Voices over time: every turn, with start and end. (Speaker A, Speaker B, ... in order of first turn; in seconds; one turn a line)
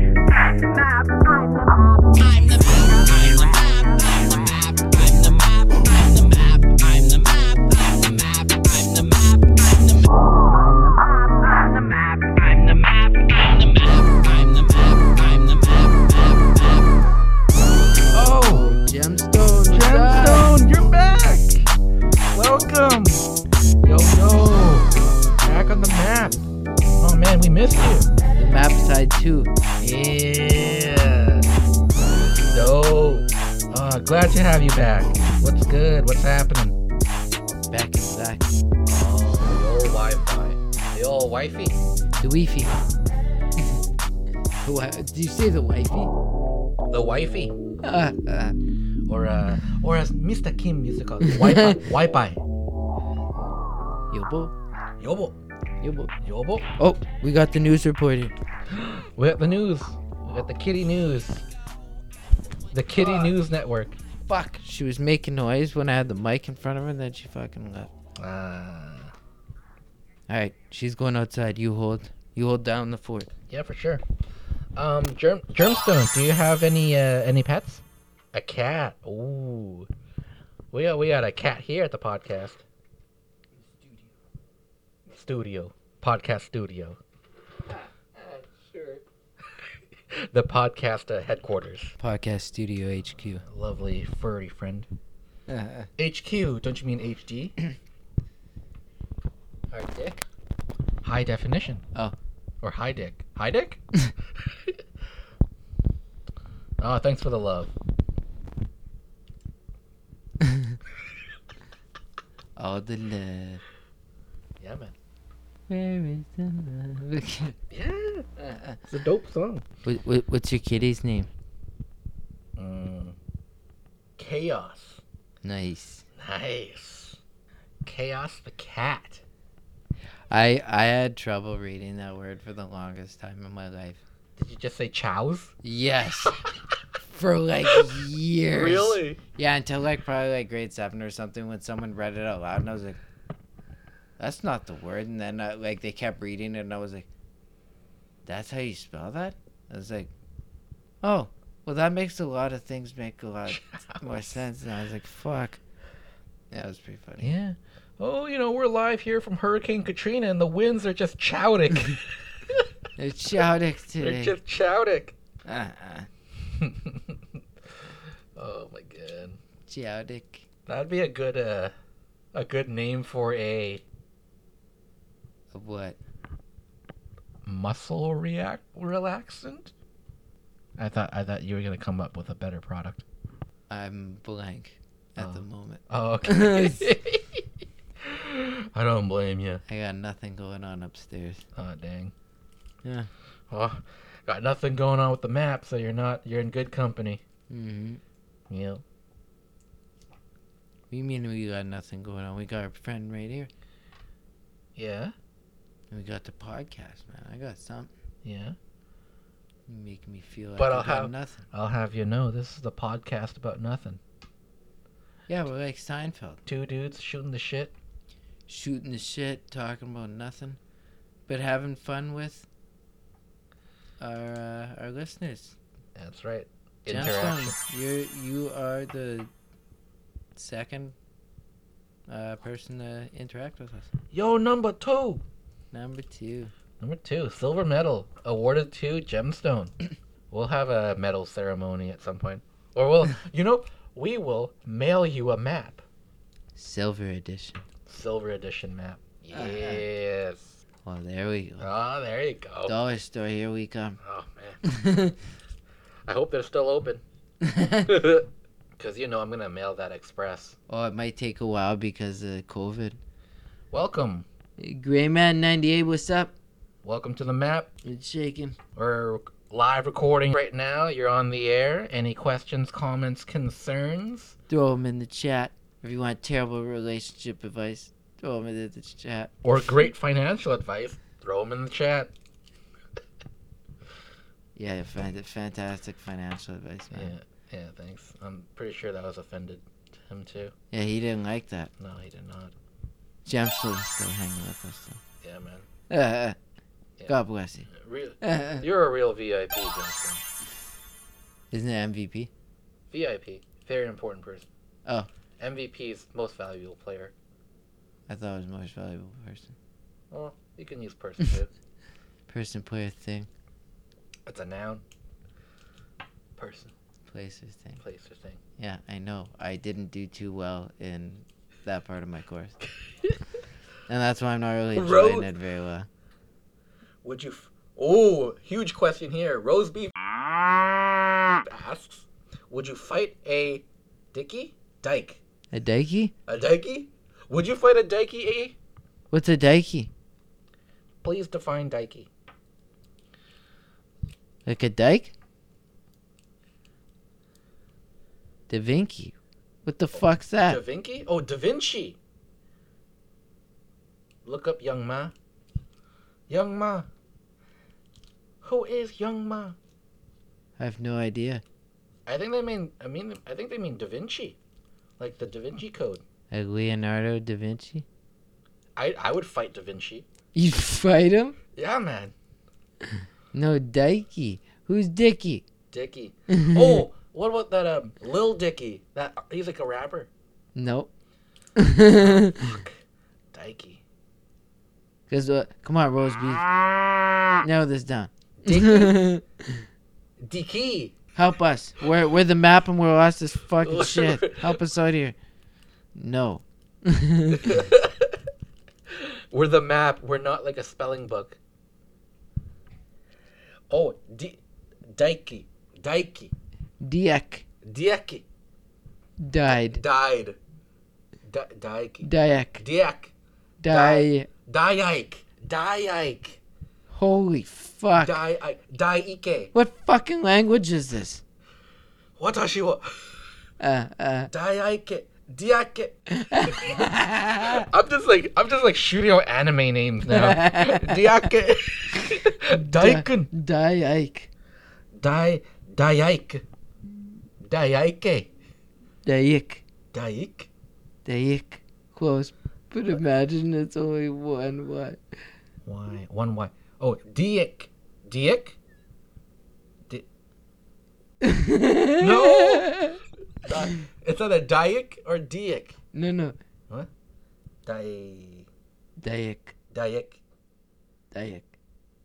Speaker A: 0.3-10.1
Speaker A: 11.6-17.0
Speaker B: 18.1-18.7
Speaker C: 18.2-20.5
Speaker B: 19.7-21.7
Speaker B: 22.3-23.2
Speaker B: 23.8-26.4
Speaker B: 27.0-28.1
Speaker C: 28.4-29.6
Speaker B: 29.8-31.5
Speaker B: 32.4-36.8
Speaker C: 37.7-38.5
Speaker B: 38.9-41.8
Speaker C: 42.2-42.8
Speaker C: 44.6-46.1
Speaker B: 46.9-47.5
Speaker C: 47.8-48.5
Speaker B: 49.1-52.4
Speaker C: 51.2-51.8
Speaker C: 54.1-54.5
Speaker B: 55.0-55.4
Speaker C: 55.8-56.1
Speaker B: 56.2-56.7
Speaker C: 56.8-58.3
Speaker B: 58.7-61.5
Speaker B: 62.7-64.0
Speaker C: 62.9-63.4
Speaker C: 64.3-67.9
Speaker B: 68.2-69.1
Speaker C: 70.3-73.3
Speaker B: 73.5-74.0
Speaker B: 74.8-79.9
Speaker B: 80.7-82.6
Speaker B: 85.1-87.0
Speaker C: 87.7-89.0
Speaker B: 90.1-91.9
Speaker C: 92.0-93.4
Speaker B: 93.4-94.9
Speaker C: 95.5-95.9
Speaker B: 96.0-97.5
Speaker B: 99.7-100.2
Speaker B: 101.0-101.8
Speaker B: 102.6-103.8
Speaker B: 104.4-104.8
Speaker B: 106.8-107.7
Speaker C: 110.4-110.8
Speaker C: 112.6-113.6
Speaker B: 114.6-114.9
Speaker C: 115.7-117.5
Speaker B: 117.7-118.2
Speaker C: 118.4-118.8
Speaker B: 118.9-119.6
Speaker C: 119.8-121.3
Speaker B: 122.6-123.2
Speaker B: 124.2-125.0
Speaker C: 125.4-126.0
Speaker B: 126.2-127.2
Speaker B: 127.8-129.2
Speaker C: 130.3-134.0
Speaker B: 134.4-135.5
Speaker C: 135.6-136.4
Speaker C: 137.0-143.0
Speaker B: 138.5-139.2
Speaker C: 144.2-147.1
Speaker C: 148.2-150.1
Speaker C: 151.0-155.6
Speaker B: 153.5-154.0
Speaker C: 156.5-157.3
Speaker B: 157.2-162.7
Speaker C: 163.0-164.3
Speaker B: 164.0-165.2
Speaker C: 165.4-166.1
Speaker B: 166.6-167.2
Speaker B: 168.3-169.4
Speaker C: 169.7-170.4
Speaker B: 170.7-171.7
Speaker B: 172.3-173.8
Speaker C: 175.5-176.0
Speaker B: 177.4-179.7
Speaker B: 180.8-183.0
Speaker C: 183.7-186.9
Speaker B: 185.2-187.4
Speaker B: 188.0-189.6
Speaker C: 189.7-191.4
Speaker B: 191.6-192.1
Speaker C: 192.8-193.1
Speaker B: 193.5-197.2
Speaker C: 197.5-198.0
Speaker B: 198.5-198.8
Speaker C: 200.9-203.5
Speaker B: 204.8-205.1
Speaker C: 205.9-207.9
Speaker B: 208.2-208.6
Speaker C: 209.7-211.5
Speaker B: 210.6-214.0
Speaker C: 215.3-216.4
Speaker B: 216.4-217.7
Speaker C: 218.5-220.6
Speaker C: 221.3-222.4
Speaker C: 224.0-225.6
Speaker B: 225.9-227.6
Speaker C: 226.9-229.3
Speaker C: 230.3-230.9
Speaker C: 232.1-233.9
Speaker B: 234.1-235.2
Speaker C: 235.7-236.5
Speaker B: 236.8-239.7
Speaker B: 240.3-245.8
Speaker C: 246.5-247.6
Speaker B: 247.8-250.6
Speaker C: 249.3-249.8
Speaker C: 250.8-251.7
Speaker B: 251.6-252.7
Speaker C: 252.7-254.0
Speaker B: 254.0-254.6
Speaker C: 254.6-255.2
Speaker B: 256.1-257.0
Speaker C: 257.4-258.0
Speaker B: 257.9-260.6
Speaker C: 260.7-263.0
Speaker B: 263.7-264.2
Speaker C: 264.6-266.3
Speaker B: 266.8-267.7
Speaker C: 267.8-268.6
Speaker B: 268.8-274.4
Speaker C: 274.5-279.3
Speaker B: 279.4-282.1
Speaker C: 284.6-287.1
Speaker B: 286.9-290.5
Speaker C: 290.7-291.7
Speaker B: 291.8-292.5
Speaker C: 293.2-295.0
Speaker B: 295.2-295.7
Speaker C: 295.9-296.4
Speaker C: 297.1-297.7
Speaker B: 297.7-300.2
Speaker C: 298.2-298.6
Speaker C: 301.5-302.3
Speaker B: 302.9-304.5
Speaker B: 305.4-307.1
Speaker C: 308.1-309.5
Speaker B: 310.1-311.5
Speaker C: 312.3-313.3
Speaker B: 314.2-314.8
Speaker B: 316.4-316.7
Speaker C: 317.1-317.8
Speaker B: 317.8-318.4
Speaker C: 318.6-322.6
Speaker C: 323.9-325.9
Speaker B: 324.7-325.3
Speaker B: 327.0-329.9
Speaker B: 330.4-335.2
Speaker C: 335.5-336.1
Speaker B: 336.3-338.6
Speaker C: 339.1-339.9
Speaker B: 341.0-342.1
Speaker C: 344.4-345.1
Speaker C: 348.5-350.6
Speaker B: 350.4-352.0
Speaker B: 354.2-355.1
Speaker B: 356.3-356.9
Speaker B: 358.4-359.6
Speaker C: 360.6-361.4
Speaker B: 362.1-364.4
Speaker B: 365.0-366.0
Speaker C: 366.3-367.8
Speaker B: 368.8-370.1
Speaker C: 370.3-371.4
Speaker B: 371.5-372.1
Speaker C: 373.3-375.4
Speaker B: 375.7-380.1
Speaker C: 376.3-376.9
Speaker C: 380.5-380.9
Speaker C: 381.6-382.6
Speaker B: 382.0-382.8
Speaker B: 383.3-383.8
Speaker C: 385.1-386.4
Speaker C: 387.4-389.6
Speaker B: 388.4-389.0
Speaker B: 390.2-390.9
Speaker C: 391.1-395.1
Speaker B: 393.6-394.6
Speaker C: 395.9-397.6
Speaker B: 397.4-398.1
Speaker B: 398.9-401.4
Speaker B: 403.7-406.3
Speaker C: 406.8-407.4
Speaker B: 407.6-408.2
Speaker C: 409.2-409.8
Speaker B: 409.5-410.4
Speaker B: 411.2-413.1
Speaker C: 412.0-412.6
Speaker C: 413.6-414.3
Speaker B: 413.7-416.4
Speaker C: 416.9-418.2
Speaker B: 417.9-419.5
Speaker C: 419.5-421.2
Speaker B: 422.2-423.0
Speaker C: 423.6-424.3
Speaker B: 424.3-433.3
Speaker C: 426.1-427.7
Speaker C: 430.1-431.3
Speaker C: 432.4-434.3
Speaker B: 434.9-436.4
Speaker B: 437.4-438.3
Speaker C: 439.0-439.6
Speaker B: 439.9-440.5
Speaker C: 441.0-445.0
Speaker B: 445.6-448.6
Speaker C: 451.2-453.0
Speaker B: 452.0-452.7
Speaker B: 453.4-455.8
Speaker C: 455.9-456.4
Speaker B: 457.6-458.5
Speaker C: 459.0-459.5
Speaker B: 459.7-460.2
Speaker C: 461.1-461.5